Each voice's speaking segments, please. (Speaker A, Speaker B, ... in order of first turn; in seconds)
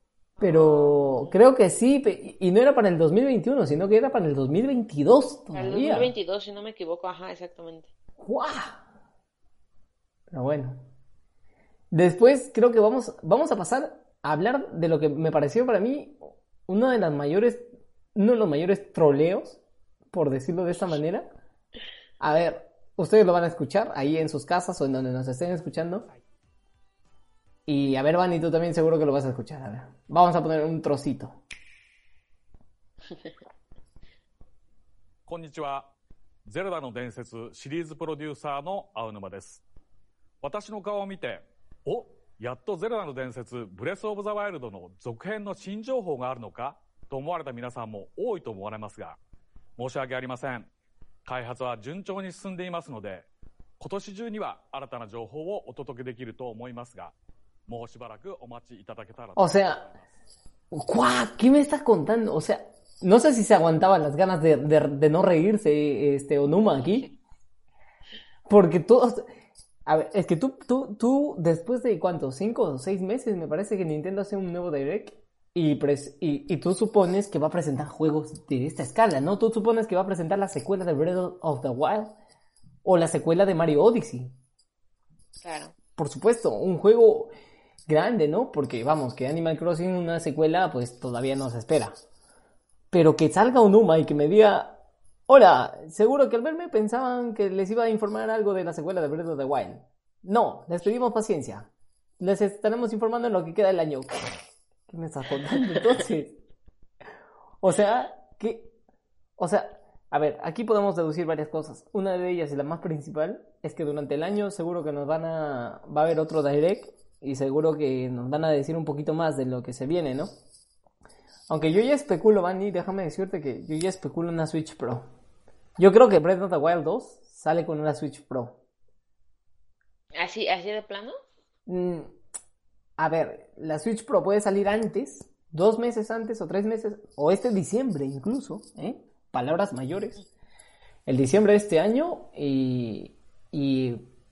Speaker A: 0.4-1.4, 5.5-7.9, 85.4-85.7, 130.2-131.1
Speaker B: 0.4-6.1, 8.2-8.8, 10.3-10.8, 11.9-19.6, 20.1-21.3, 22.2-26.1, 27.7-31.4, 59.4-59.8, 60.7-67.1, 68.5-69.2, 69.8-82.1, 82.8-84.3, 86.0-87.3, 87.9-92.0, 92.9-106.4, 107.6-108.7, 109.4-120.3, 121.5-125.1, 125.8-128.6, 131.7-132.1, 133.0-140.2, 141.1-144.0
Speaker C: 35.3-35.9, 36.5-39.6, 40.4-49.2, 49.8-50.7, 51.2-53.3, 53.8-57.1, 57.7-60.0